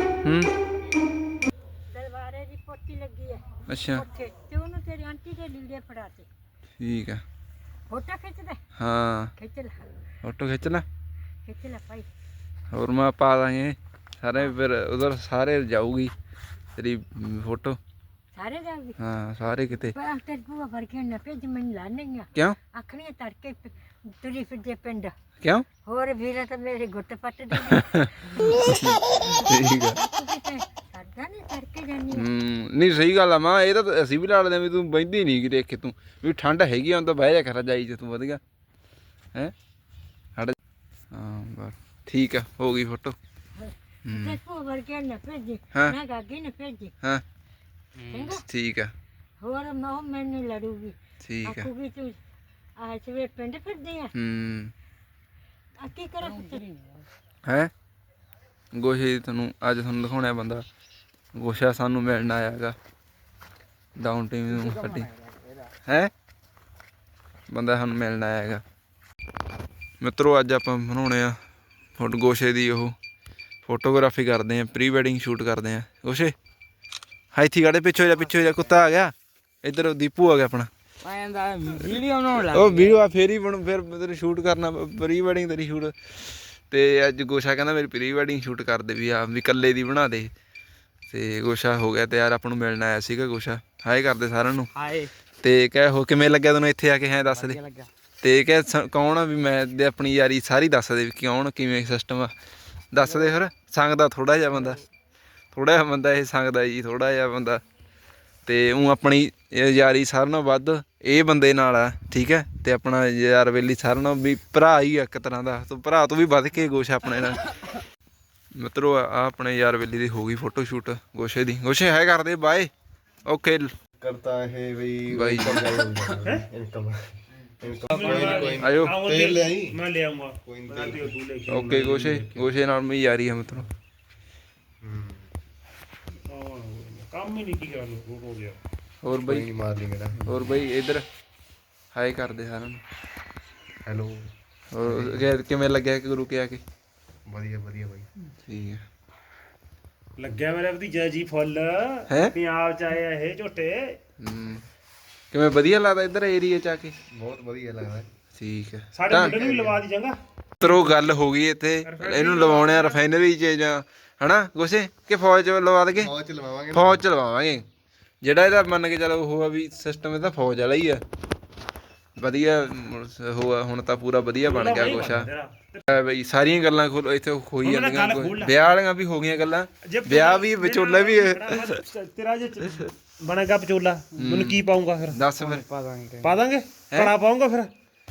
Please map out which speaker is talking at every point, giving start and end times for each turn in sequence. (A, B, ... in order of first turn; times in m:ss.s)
0:00.2-0:00.5 A
0:01.9-0:06.3 B
0:03.7-0:04.0 A
0:06.8-0:07.2 A
0:07.9-0:08.6 B
0:08.8-0:09.3 A
0:09.4-0:09.8 B
0:10.2-0:10.8 A
0:11.4-0:12.1 B
0:12.7-0:16.1 A
0:16.8-0:17.8 A
0:18.3-0:19.0 B
0:19.0-0:19.9 A
0:19.9-0:25.1 B
0:25.4-0:25.6 A
0:25.8-0:28.8 B
0:27.9-0:30.0 A
0:29.5-0:32.2 B
0:32.1-0:38.4 A
0:41.1-0:43.2 A
0:43.6-0:46.9 B
0:44.0-0:44.4 A
0:48.0-0:48.3 C
0:48.1-0:48.4 B
0:48.4-0:48.9 A
0:49.4-0:52.2 B
0:51.2-0:51.7 A
0:52.8-0:54.1 B
0:54.1-0:54.7 A
0:55.8-0:56.6 B
0:56.3-0:57.0 C
0:57.4-0:57.7 A
0:58.7-1:00.6 A
1:01.3-1:02.8 A
1:04.0-1:05.1 A
1:04.5-1:05.7 C
1:05.8-1:06.1 A
1:07.5-1:08.6 A
1:10.0-1:11.3 A
1:12.0-1:12.9 A
1:13.6-1:16.3 A
1:17.3-1:20.7 A
1:21.0-1:23.0 C
1:21.9-1:30.3 A
1:31.1-1:34.7 A
1:34.8-1:35.1 C
1:35.4-1:37.6 A
1:37.2-1:37.9 C
1:38.2-1:42.3 A
1:42.9-1:44.8 A
1:45.5-1:47.6 A
1:48.4-1:57.5 A
1:58.5-2:02.7 A
2:03.3-2:03.7 A
2:04.0-2:07.0 D
2:05.1-2:05.8 A
2:07.6-2:09.8 D
2:07.9-2:09.3 E
2:08.4-2:09.0 A
2:10.0-2:11.9 E
2:10.4-2:11.1 D
2:11.5-2:13.7 A
2:14.8-2:15.3 D
2:16.3-2:18.6 E
2:19.0-2:19.4 A
2:19.2-2:20.6 D
2:20.2-2:21.0 A
2:21.9-2:22.8 A
2:23.8-2:24.2 D
2:24.7-2:26.6 A
2:24.8-2:25.3 D
2:27.3-2:28.1 D
2:28.4-2:28.8 A
2:30.2-2:33.8 E
2:32.1-2:32.3 A
2:34.2-2:34.6 A
2:35.3-2:37.0 A
2:37.1-2:38.1 D
2:38.3-2:39.4 A
2:39.0-2:40.1 E
2:39.1-2:39.8 D
2:40.6-2:46.1 A
2:45.9-2:47.0 D
2:46.7-2:47.6 A
2:48.2-2:51.0 A
2:52.2-2:55.3 A
2:55.9-3:01.8 A
3:02.0-3:02.6 E
3:03.3-3:05.0 E
3:04.2-3:04.6 A
3:05.1-3:05.6 A
3:05.4-3:06.5 C